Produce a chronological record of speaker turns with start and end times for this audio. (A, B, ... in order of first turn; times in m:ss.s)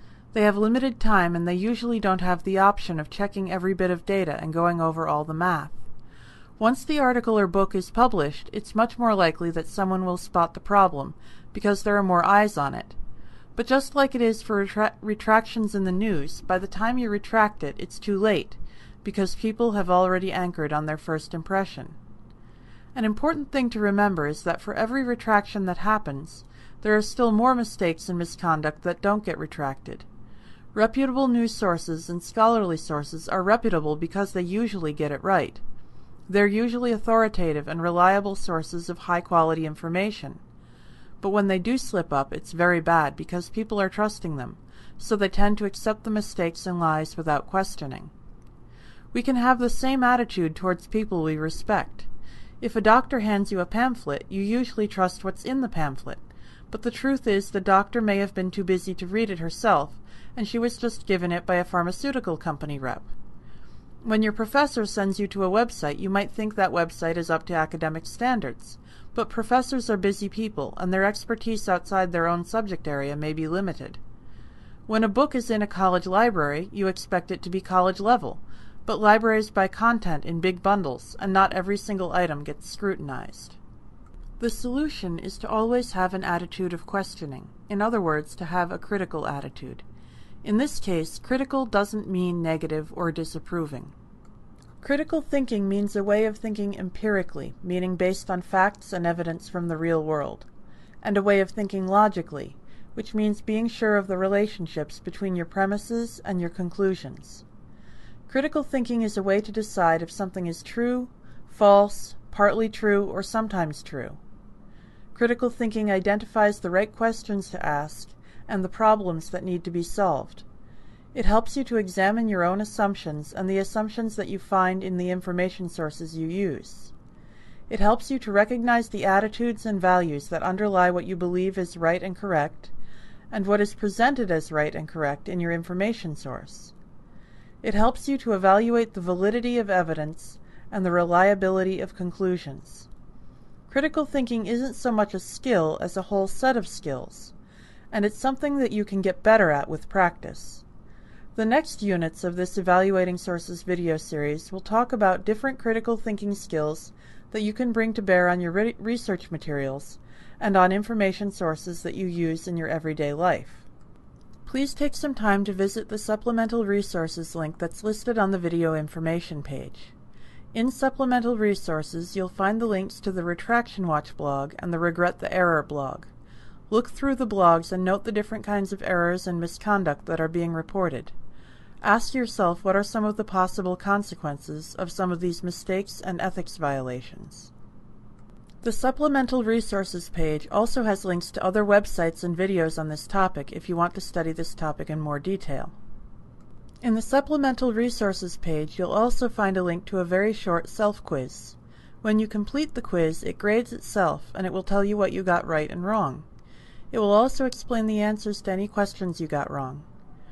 0:00.3-0:05.8 A
0:06.6-0:13.0 A
0:13.6-0:22.0 A
0:23.0-0:30.1 A
0:30.7-0:35.6 A
0:36.3-0:40.4 A
0:41.2-0:48.1 A
0:49.1-0:52.1 A
0:52.6-1:03.1 A
1:04.0-1:14.0 A
1:14.9-1:23.6 A
1:24.4-1:29.8 A
1:30.4-1:33.9 A
1:34.8-1:40.5 A
1:41.0-1:47.4 A
1:48.3-1:54.2 A
1:55.1-2:00.4 A
2:01.1-2:06.9 A
2:07.7-2:12.7 A
2:13.3-2:16.7 A
2:17.6-2:22.9 A
2:23.7-2:27.3 A
2:27.9-2:30.6 A
2:31.3-2:43.6 A
2:44.4-2:49.9 A
2:50.5-2:56.1 A
2:56.7-3:01.1 A
3:01.8-3:07.5 A
3:08.6-3:15.8 A
3:16.8-3:26.2 A
3:26.9-3:29.8 A